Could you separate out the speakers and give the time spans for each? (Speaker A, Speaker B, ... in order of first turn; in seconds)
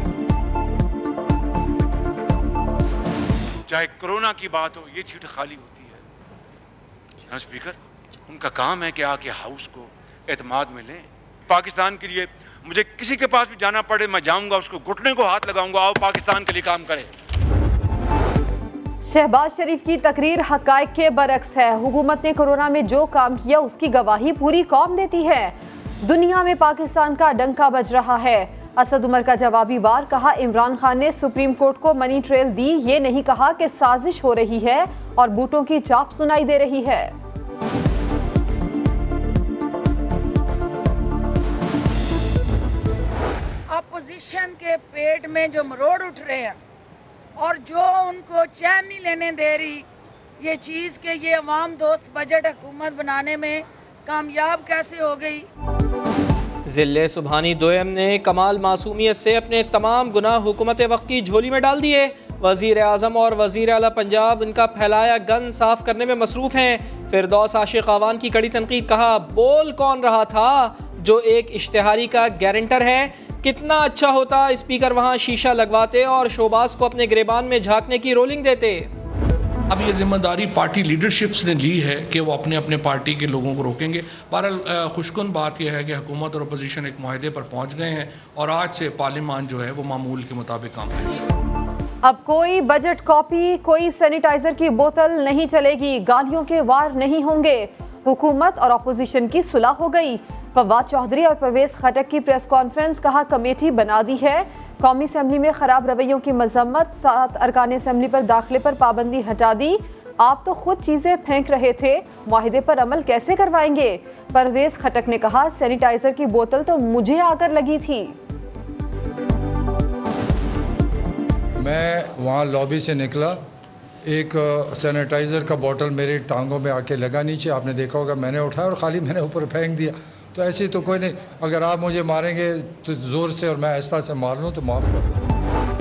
Speaker A: 3.7-6.0, 7.3-7.8, 8.3-17.1
Speaker B: 19.0-37.1, 92.0-118.2
Speaker C: 43.7-46.6, 47.4-49.8, 50.4-55.5
Speaker D: 56.7-78.9
Speaker E: 79.7-91.2
Speaker F: 121.6-123.4, 124.1-135.2